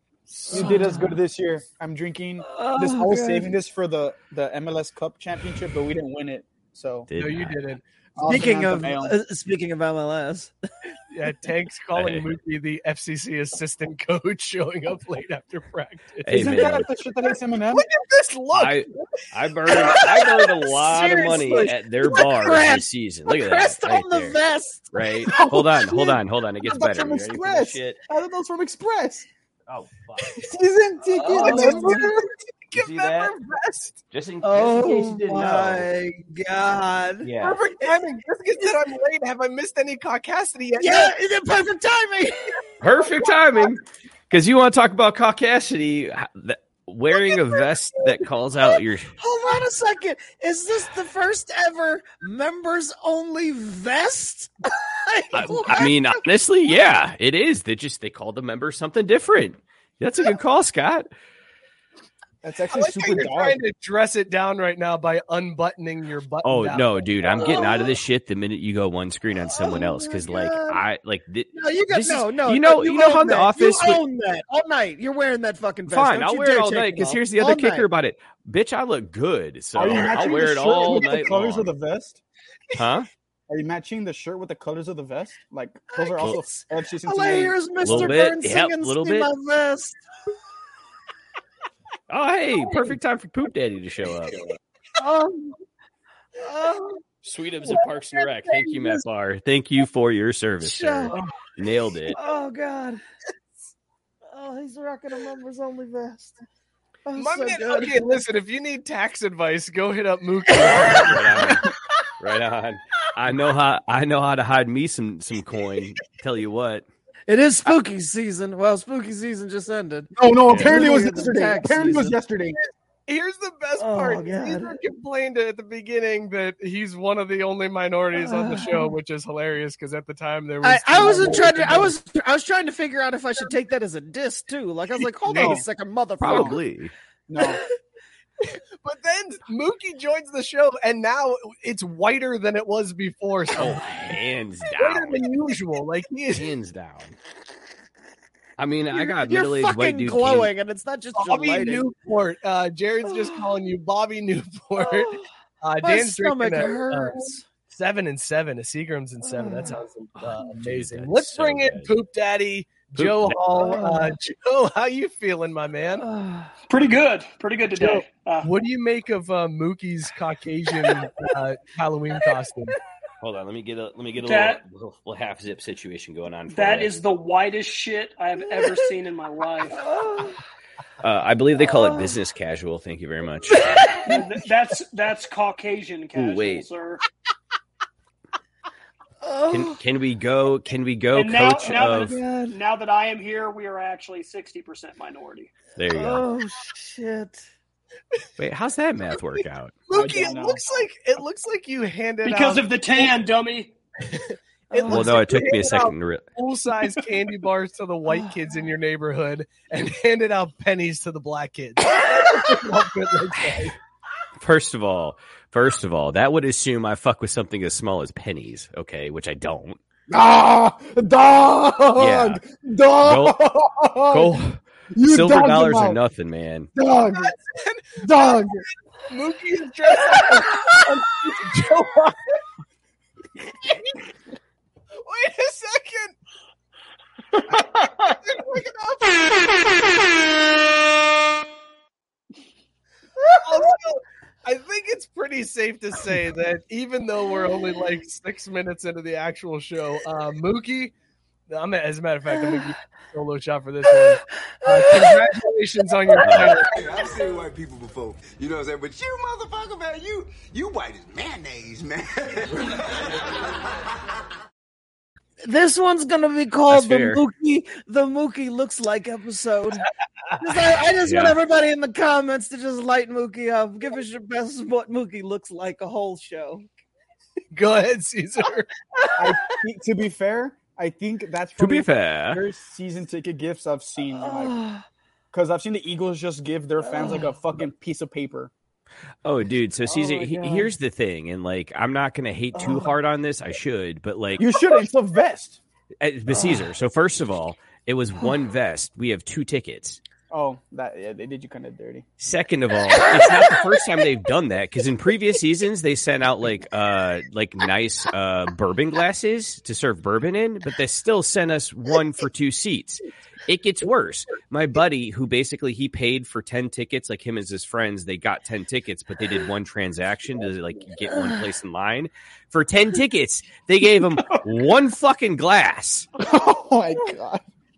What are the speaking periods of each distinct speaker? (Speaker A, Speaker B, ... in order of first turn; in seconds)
Speaker A: 0.5-7.1, 8.2-9.1, 16.3-17.9, 25.3-29.3, 30.4-32.1, 62.4-63.6, 79.7-82.2, 83.5-88.1, 120.1-122.6, 135.3-135.6, 136.3-136.6, 137.3-137.6, 199.9-200.6, 220.1-224.4, 224.9-226.0, 226.7-227.3, 228.0-228.6, 279.1-284.6, 285.3-288.5, 294.4-295.6, 300.3-302.0, 326.2-327.4
Speaker B: 0.5-1.1, 2.5-3.5, 8.2-10.5, 19.9-20.2, 20.7-24.9, 31.2-32.1, 34.4-37.3, 40.8-42.6, 49.2-56.2, 67.5-67.9, 69.5-70.8, 71.5-77.9, 85.9-90.0, 95.0-95.5, 96.4-97.0, 97.6-99.0, 100.6-101.2, 102.1-103.0, 104.3-106.4, 107.0-108.0, 110.6-111.1, 117.3-122.2, 123.8-124.8, 128.1-128.9, 130.6-136.6, 148.9-151.8, 153.1-153.4, 154.8-155.2, 155.8-157.4, 159.2-159.8, 163.5-164.1, 166.0-166.5, 179.8-180.4, 181.6-182.2, 183.6-184.2, 189.2-189.8, 191.8-192.6, 195.9-197.4, 204.7-205.2, 247.4-247.7, 254.6-255.4, 256.1-256.6, 265.4-269.9, 270.4-276.7, 284.2-284.8, 286.8-287.3, 289.9-290.7, 292.5-292.9, 296.3-296.6
Speaker C: 7.1-7.6, 11.9-12.3, 16.2-16.9, 18.5-24.4, 24.9-28.0, 29.7-30.4, 32.7-33.3, 34.1-35.9, 37.2-37.6, 42.8-49.1, 55.3-61.1, 66.4-74.0, 75.9-81.7, 82.7-83.1, 87.8-89.3, 92.1-94.5, 97.2-102.2, 110.9-111.6, 112.2-116.9, 120.5-120.7, 136.2-136.9, 143.5-145.2, 146.3-147.1, 148.6-150.5, 160.2-161.9, 162.9-163.4, 173.2-176.9, 181.0-183.7, 186.1-186.7, 189.5-192.2, 195.8-196.2, 198.4-199.8, 204.9-206.2, 214.4-219.8, 221.9-222.4, 223.0-223.4, 224.1-226.7, 256.2-256.6, 266.7-267.2, 271.0-271.4, 281.6-282.4, 289.2-294.4, 296.0-300.0, 302.2-326.1
Speaker D: 7.2-7.8, 11.1-16.7, 17.7-19.2, 19.8-20.4, 31.4-32.1, 32.7-34.0, 37.4-41.1, 62.7-67.6, 107.1-111.6, 123.1-131.9, 138.4-143.8, 144.7-146.5, 151.1-166.0, 167.8-172.7, 199.9-203.1, 204.1-213.7, 227.1-228.0, 229.1-232.2, 235.0-236.1, 238.3-239.4, 243.4-250.9, 251.5-256.7, 277.5-279.1
Speaker E: 166.7-168.5, 174.2-174.6, 176.5-179.8, 184.0-187.0, 191.1-195.5, 202.2-203.7, 237.6-238.0
Speaker F: 256.7-263.6